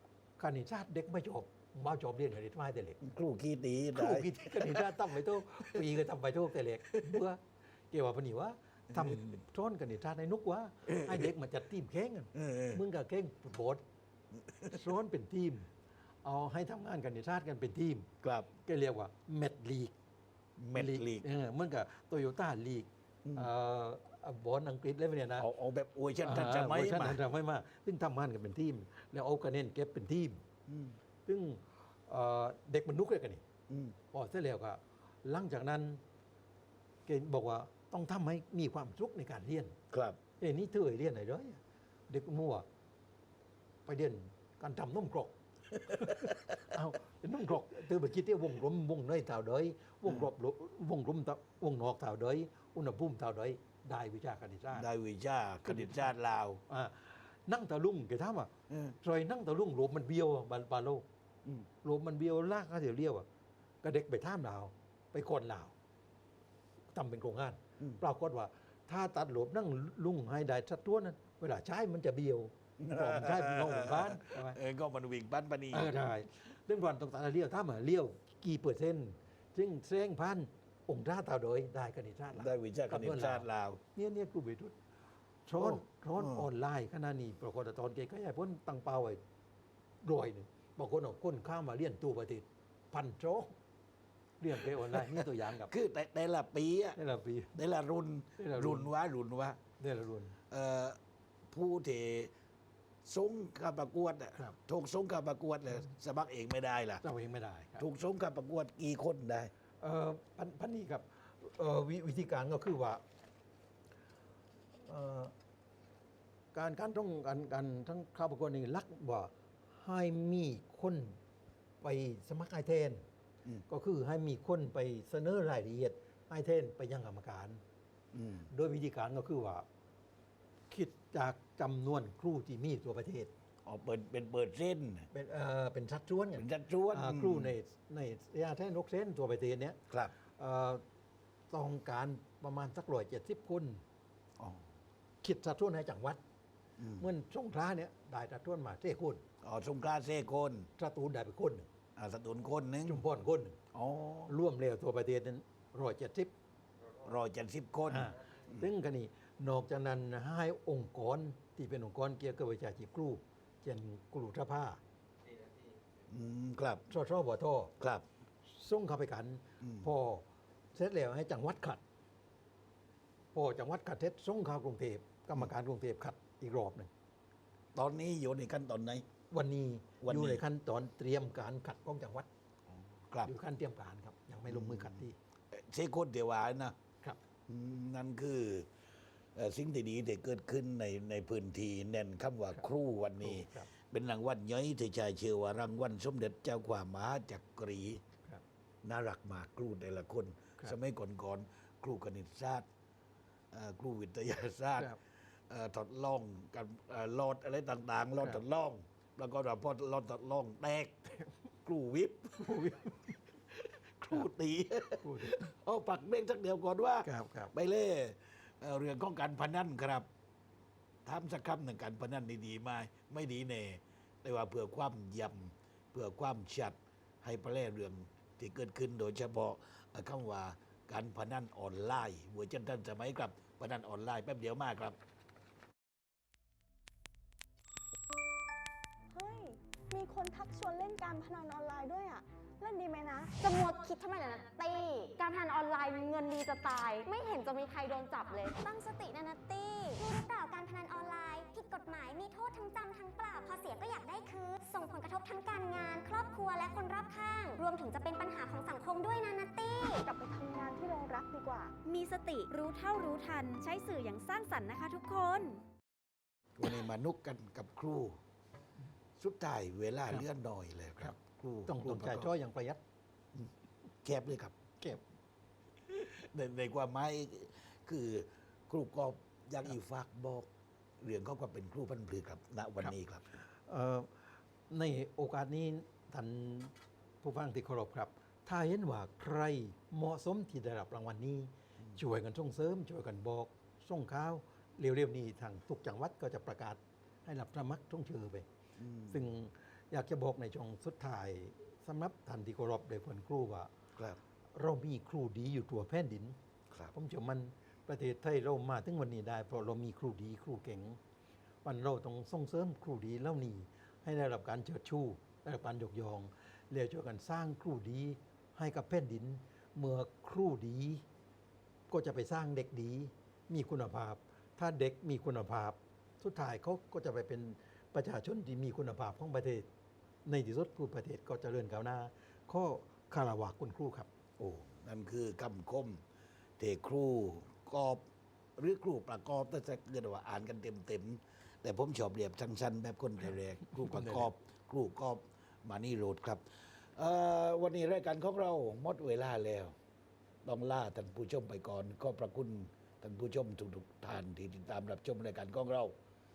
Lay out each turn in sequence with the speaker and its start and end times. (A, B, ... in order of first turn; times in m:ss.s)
0:00.4-0:03.0 A
0:03.0-0:05.0 B
0:03.9-0:07.4 A
0:07.9-0:13.8 A
0:08.9-0:09.2 B
0:10.9-0:11.3 B
0:12.3-0:12.8 B
0:14.5-0:14.8 B
0:14.7-0:15.7 A
0:16.2-0:18.1 A
0:18.2-0:18.5 B
0:18.6-0:19.9 A
0:20.6-0:21.2 B
0:20.7-0:25.5 A
0:23.2-0:23.5 B
0:25.4-0:27.2 B
0:26.2-0:30.4 A
0:30.7-0:31.0 B
0:31.2-0:33.4 A
0:33.7-0:34.0 B
0:34.1-0:36.0 A
0:37.0-0:39.7 A
0:39.9-0:40.2 B
0:40.4-0:42.6 A
0:43.8-0:45.3 A
0:45.9-0:46.5 B
0:46.0-0:54.9 A
0:54.7-0:56.6 B
0:55.6-0:56.1 A
0:56.7-1:01.0 A
0:58.7-0:59.0 B
1:01.8-1:03.3 A
1:03.8-1:05.7 A
1:06.9-1:14.6 A
1:12.8-1:15.9 B
1:15.7-1:24.7 A
1:22.3-1:23.8 B
1:25.4-1:29.2 A
1:25.5-1:26.5 B
1:30.0-1:33.5 A
1:34.4-1:35.7 A
1:34.9-1:37.0 B
1:37.0-1:37.5 A
1:37.5-1:39.6 B
1:38.4-1:38.9 A
1:39.8-1:40.4 A
1:40.5-1:41.0 B
1:41.5-1:42.3 B
1:43.0-1:47.0 B
1:47.0-1:47.8 A
1:47.8-1:49.5 B
1:49.8-1:53.0 A
1:54.8-1:55.3 A
1:56.5-2:01.2 A
2:01.8-2:03.0 A
2:03.7-2:07.6 A
2:08.1-2:08.5 B
2:08.5-2:09.6 A
2:10.7-2:13.3 A
2:13.6-2:15.1 B
2:15.1-2:19.8 A
2:16.3-2:17.5 B
2:20.4-2:20.8 A
2:21.5-2:23.8 A
2:24.4-2:24.7 B
2:25.2-2:26.2 A
2:26.8-2:27.0 B
2:27.0-2:29.2 A
2:29.4-2:30.7 B
2:30.8-2:31.7 A
2:32.0-2:33.0 B
2:32.8-2:33.6 A
2:33.7-2:34.3 B
2:34.3-2:36.3 A
2:37.0-2:38.6 B
2:37.9-2:44.8 A
2:46.1-2:46.9 B
2:46.9-2:47.7 A
2:47.8-2:48.0 B
2:48.4-2:51.8 A
2:49.6-2:49.9 B
2:53.3-2:56.9 A
2:57.7-2:59.0 B
2:59.3-3:02.3 A
3:00.0-3:00.4 B
3:03.1-3:03.3 B
3:03.2-3:05.2 A
3:04.5-3:05.0 B
3:05.5-3:06.8 B
3:07.5-3:08.7 B
3:09.3-3:18.0 B
3:13.2-3:13.7 A
3:18.8-3:22.7 B
3:23.5-3:31.0 B
3:31.6-3:32.9 B
3:32.4-3:33.2 A
3:34.0-3:40.1 B
3:35.0-3:35.5 A
3:37.0-3:37.5 A
3:41.0-3:55.0 B
3:59.1-4:03.3 C
4:03.4-4:10.0 D
4:10.0-4:20.0 E
4:20.0-4:21.7 C
4:21.8-4:25.6 F
4:26.6-4:28.2 B
4:29.2-4:32.3 B
4:31.7-4:32.8 A
4:34.0-4:34.5 B
4:35.9-4:40.5 B
4:41.0-4:43.3 B
4:42.8-4:44.1 A
4:44.7-4:58.4 A
4:58.8-4:59.3 B
4:59.1-5:03.7 A
5:04.5-5:06.4 A
5:06.9-5:11.0 A
5:11.6-5:21.0 A
5:21.9-5:29.7 A
5:30.2-5:34.1 A
5:34.4-5:36.0 B
5:36.6-5:38.0 B
5:38.6-5:49.8 B
5:43.7-5:44.3 A
5:50.4-5:55.9 B